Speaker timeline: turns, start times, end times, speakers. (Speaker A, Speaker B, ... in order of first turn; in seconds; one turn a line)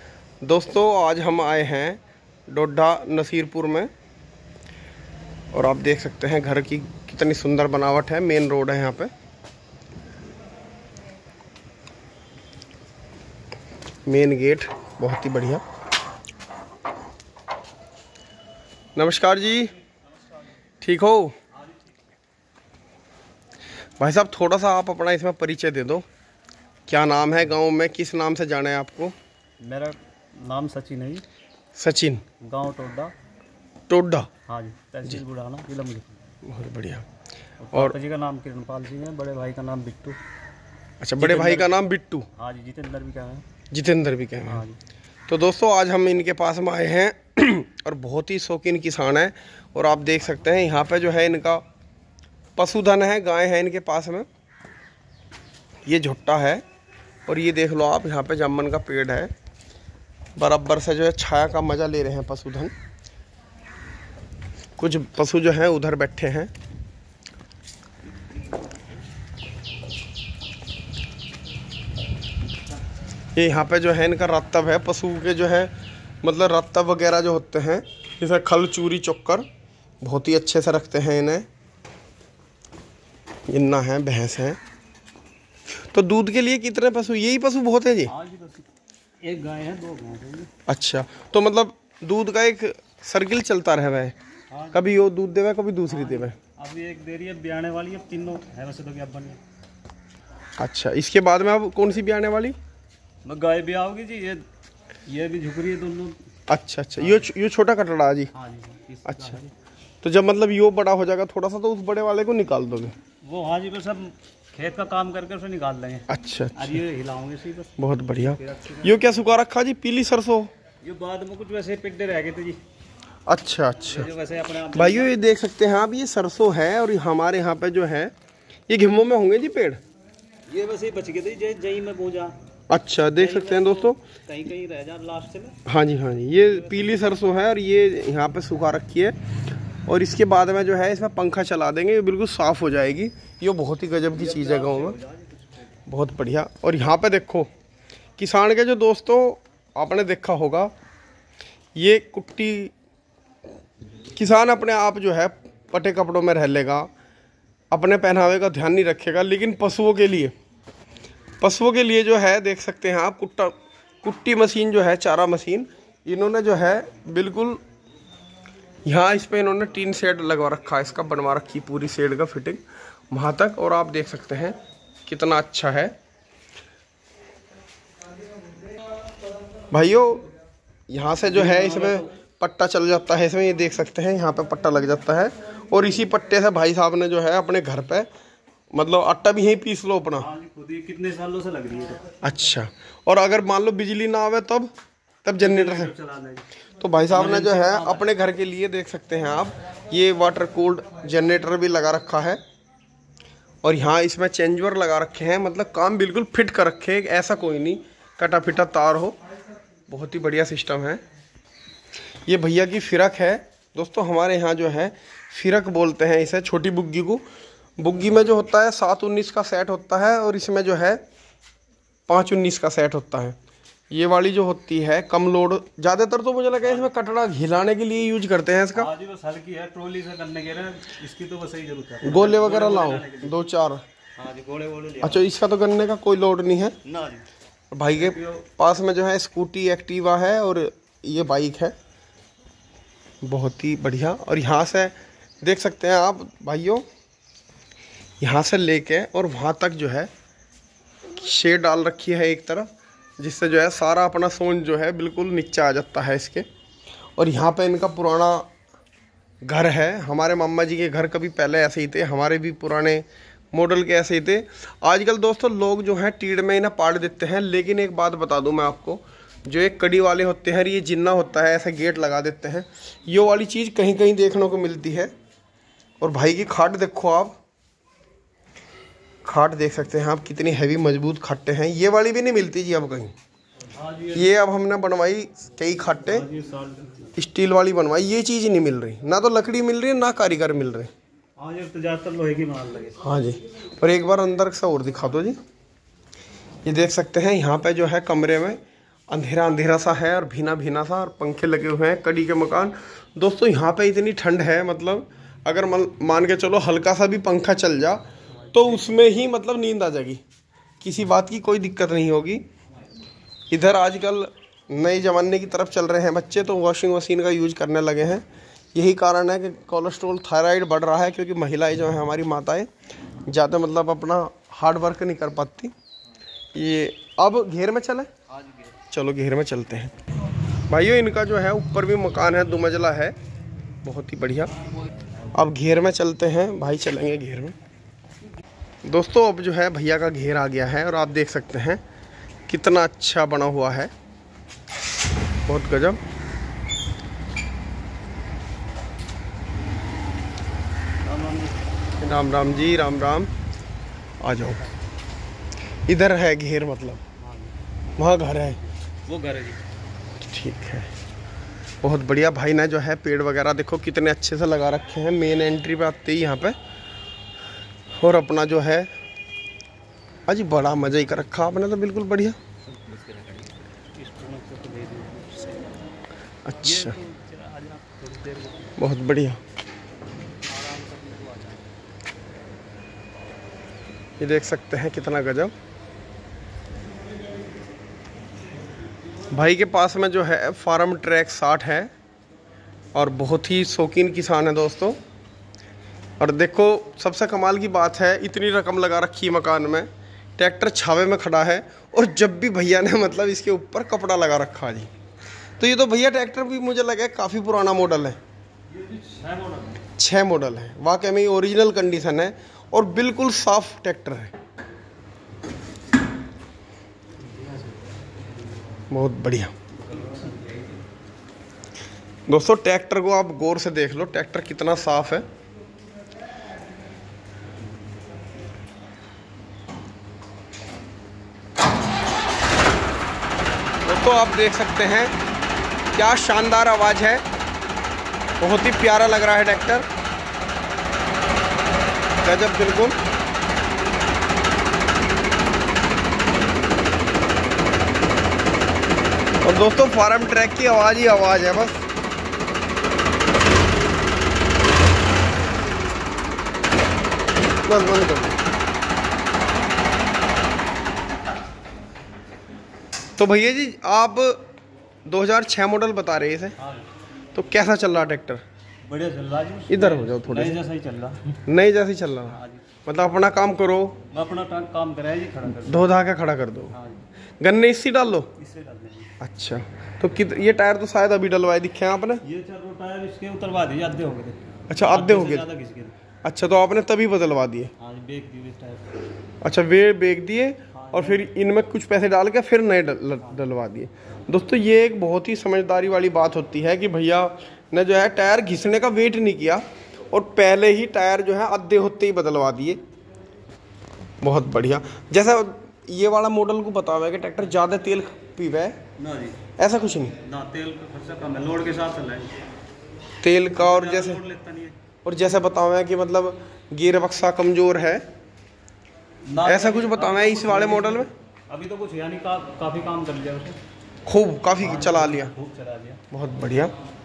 Speaker A: 0.4-3.9
Speaker A: 5.5-9.1
Speaker A: 14.1-15.6
Speaker A: 18.9-19.7
Speaker A: 20.8-21.3
Speaker A: 24.0-26.0
Speaker A: 26.9-29.1
Speaker B: 29.6-31.2
Speaker A: 31.8-32.2
Speaker B: 32.4-33.1
Speaker A: 33.9-34.3
Speaker B: 34.5-36.1
Speaker A: 36.4-37.0
Speaker B: 37.6-40.2
Speaker A: 41.0-42.3
Speaker B: 41.2-41.8
Speaker B: 42.4-43.5
Speaker A: 43.7-44.6
Speaker B: 44.5-44.8
Speaker A: 45.3-51.6
Speaker A: 52.6-54.2
Speaker A: 55.9-56.6
Speaker A: 57.2-59.3
Speaker A: 60.4-62.7
Speaker A: 64.8-66.5
Speaker A: 73.3-75.7
Speaker A: 76.2-79.5
Speaker A: 80.0-81.5
Speaker A: 83.5-84.6
Speaker A: 85.9-88.1
Speaker B: 88.1-88.7
Speaker B: 89.2-90.5
Speaker A: 90.7-94.2
Speaker B: 94.5-94.9
Speaker A: 94.7-96.3
Speaker B: 95.9-99.4
Speaker A: 100.6-102.5
Speaker B: 103.2-104.4
Speaker B: 105.0-106.2
Speaker A: 106.5-108.3
Speaker B: 107.0-107.3
Speaker B: 108.3-109.5
Speaker A: 109.0-109.3
Speaker A: 110.0-112.9
Speaker B: 113.2-119.3
Speaker A: 116.1-116.7
Speaker A: 117.8-120.5
Speaker B: 120.8-122.6
Speaker A: 123.3-124.1
Speaker B: 123.8-125.1
Speaker A: 124.7-128.1
Speaker A: 128.7-129.8
Speaker B: 130.5-132.3
Speaker A: 132.7-134.0
Speaker B: 133.1-135.6
Speaker A: 135.7-139.1
Speaker B: 136.3-137.2
Speaker A: 139.9-145.0
Speaker B: 144.1-145.6
Speaker A: 145.9-147.5
Speaker A: 148.2-150.7
Speaker A: 151.8-152.7
Speaker A: 154.1-156.9
Speaker A: 157.7-160.3
Speaker A: 161.4-167.6
Speaker A: 168.8-175.9
Speaker A: 179.7-180.3
Speaker A: 180.9-188.1
Speaker B: 181.3-182.1
Speaker A: 188.7-190.3
Speaker B: 190.2-192.1
Speaker A: 192.2-194.7
Speaker A: 195.2-195.9
Speaker B: 195.4-196.4
Speaker A: 196.8-202.4
Speaker B: 197.1-198.1
Speaker A: 203.6-209.2
Speaker A: 209.9-211.0
Speaker A: 212.2-217.2
Speaker A: 217.8-221.0
Speaker A: 222.1-223.3
Speaker A: 223.9-228.9
Speaker B: 226.6-226.9
Speaker B: 228.7-233.3
Speaker A: 232.0-233.8
Speaker B: 234.2-235.3
Speaker A: 235.0-236.8
Speaker B: 236.8-237.3
Speaker A: 237.7-241.7
Speaker B: 237.9-238.4
Speaker A: 243.2-246.8
Speaker A: 248.2-250.1
Speaker A: 251.1-252.7
Speaker A: 253.2-256.4
Speaker A: 257.2-258.5
Speaker A: 259.4-275.1
Speaker A: 276.0-277.3
Speaker A: 279.2-283.1
Speaker B: 283.7-284.3
Speaker A: 284.1-286.3
Speaker B: 286.1-287.1
Speaker A: 287.1-290.9
Speaker B: 291.4-293.0
Speaker A: 293.0-295.4
Speaker A: 296.6-310.2
Speaker B: 308.5-309.1
Speaker A: 310.8-312.4
Speaker A: 313.5-322.7
Speaker A: 323.3-325.7
Speaker A: 326.5-328.1
Speaker A: 328.9-329.9
Speaker A: 330.7-333.1
Speaker A: 333.8-334.5
Speaker A: 335.3-337.5
Speaker A: 338.8-341.8
Speaker A: 342.5-343.9
Speaker A: 345.4-346.0
Speaker B: 351.0-351.6
Speaker A: 352.0-353.3
Speaker A: 354.2-354.6
Speaker A: 355.9-357.0
Speaker B: 357.2-357.6
Speaker A: 358.0-358.6
Speaker B: 358.4-359.6
Speaker A: 360.2-360.9
Speaker A: 361.8-366.6
Speaker A: 368.0-368.9
Speaker A: 370.3-372.4
Speaker B: 372.7-375.8
Speaker A: 376.4-376.9
Speaker B: 376.6-378.7
Speaker A: 378.8-379.4
Speaker B: 380.5-381.7
Speaker A: 384.2-385.5
Speaker A: 389.3-391.9
Speaker A: 392.9-395.0
Speaker A: 396.2-404.9
Speaker A: 405.6-408.2
Speaker B: 408.7-409.8
Speaker A: 410.0-414.3
Speaker B: 417.2-417.8
Speaker A: 418.9-419.5
Speaker B: 419.8-420.6
Speaker A: 422.3-425.2
Speaker A: 433.8-435.1
Speaker A: 435.9-437.2
Speaker A: 438.4-439.9
Speaker A: 442.2-443.0
Speaker A: 449.4-451.8
Speaker A: 457.6-458.4
Speaker A: 463.2-464.4
Speaker A: 465.1-466.6
Speaker B: 466.6-466.9
Speaker A: 467.3-468.4
Speaker B: 468.8-471.4
Speaker A: 469.7-470.6
Speaker A: 471.4-474.0
Speaker B: 472.3-472.6
Speaker B: 474.1-475.9
Speaker A: 475.6-476.7
Speaker B: 476.7-477.0
Speaker A: 477.4-478.3
Speaker B: 478.4-479.1
Speaker A: 479.2-482.2
Speaker B: 482.2-485.9
Speaker A: 484.7-485.5
Speaker A: 486.2-487.7
Speaker B: 487.8-489.0
Speaker A: 489.4-502.8
Speaker B: 490.7-491.2
Speaker A: 504.2-508.8
Speaker B: 509.0-509.4
Speaker A: 509.6-510.1
Speaker B: 510.2-512.4
Speaker A: 513.2-514.2
Speaker B: 513.5-514.8
Speaker A: 515.0-518.0
Speaker B: 519.3-523.6
Speaker A: 519.4-521.1
Speaker A: 524.1-525.3
Speaker B: 524.6-526.0
Speaker A: 526.1-526.7